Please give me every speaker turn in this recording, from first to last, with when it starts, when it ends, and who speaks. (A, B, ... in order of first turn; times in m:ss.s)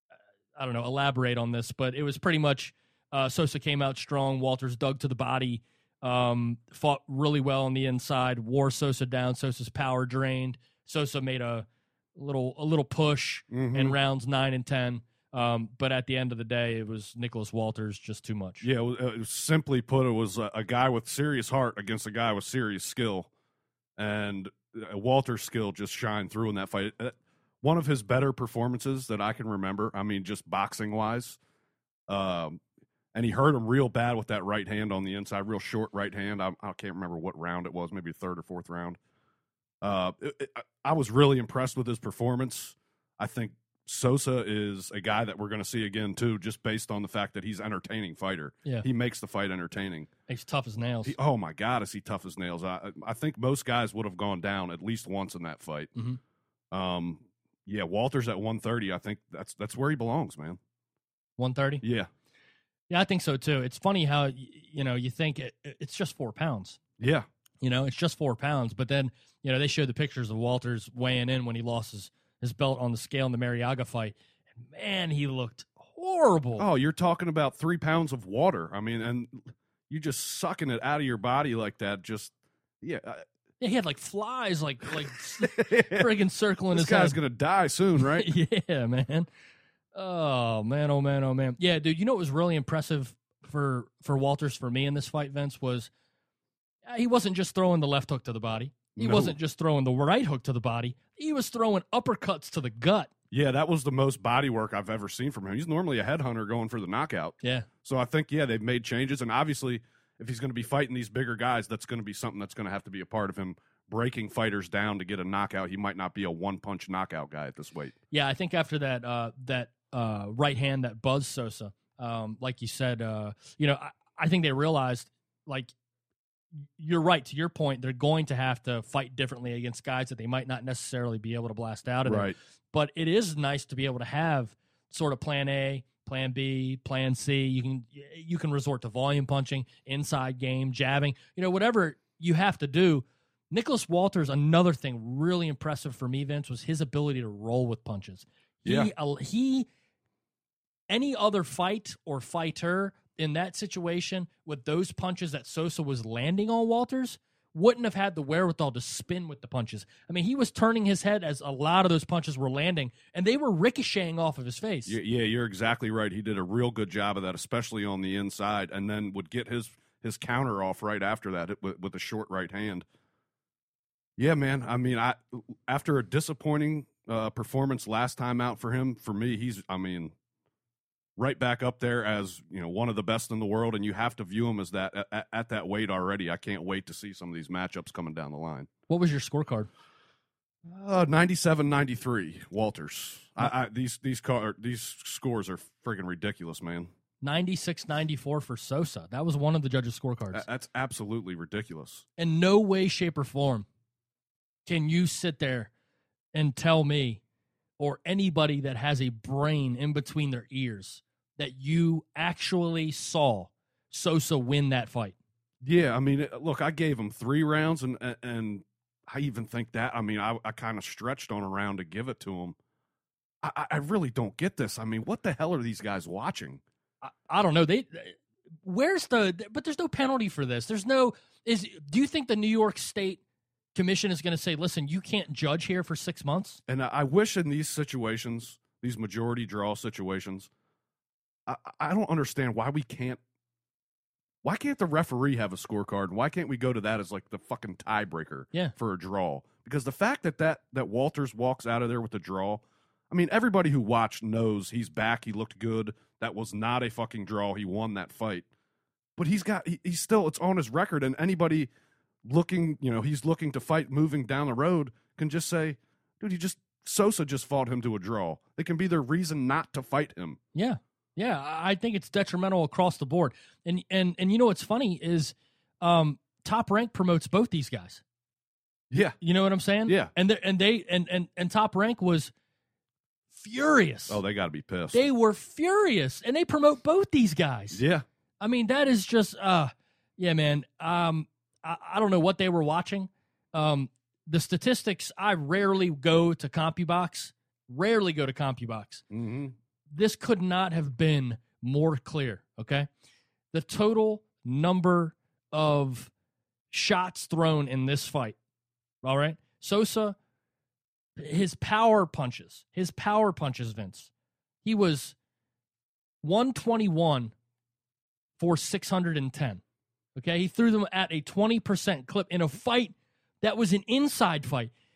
0:00.5-0:18.6 A
0:13.5-0:14.0 B
0:18.6-0:23.3 B
0:24.0-0:31.4 B
0:32.1-0:32.6 B
0:33.1-0:39.0 B
0:39.8-0:50.1 B
0:50.3-0:51.1 A
0:51.0-0:55.9 B
0:56.7-1:00.6 B
1:01.4-1:01.8 A
1:01.8-1:02.1 B
1:02.9-1:06.8 A
1:07.0-1:07.2 B
1:07.6-1:14.1 A
1:14.7-1:16.7 A
1:16.6-1:23.2 B
1:23.6-1:27.2 A
1:25.4-1:26.1 B
1:26.7-1:28.3 B
1:28.0-1:29.3 A
1:29.9-1:35.9 A
1:36.8-1:43.1 A
1:39.0-1:39.3 B
1:43.3-1:57.9 B
1:47.4-1:47.7 A
1:58.1-2:05.7 A
2:06.8-2:29.7 A
2:12.0-2:12.3 B
2:28.6-2:28.9 B
2:30.9-2:45.0 A
2:44.9-2:52.8 B
2:54.2-3:00.1 B
3:01.2-3:08.7 B
3:08.9-3:09.7 A
3:10.6-3:16.9 B
3:17.2-3:20.4 A
3:20.3-3:22.0 B
3:22.2-3:23.6 A
3:24.6-3:25.7 A
3:26.3-3:27.2 A
3:27.8-3:35.2 A
3:35.6-3:42.6 B
3:43.4-3:46.6 B
3:47.0-3:53.2 A
3:53.7-3:56.6 A
3:56.7-4:00.5 B
4:01.5-4:03.2 B
4:04.4-4:18.5 B
4:19.2-4:21.7 B
4:22.2-4:30.4 B
4:30.5-4:38.0 A
4:38.9-4:39.2 B
4:39.2-4:42.3 A
4:43.3-4:44.2 A
4:44.1-4:45.0 B
4:44.9-4:47.8 A
4:47.7-4:48.0 B
4:48.4-4:59.0 A
4:59.1-4:59.5 B
4:59.9-5:02.9 A
5:03.5-5:06.1 A
5:06.7-5:08.4 A
5:09.0-5:10.2 A
5:11.2-5:14.1 A
5:14.6-5:15.2 A
5:16.2-5:17.3 A
5:18.4-5:19.6 A
5:20.2-5:24.7 A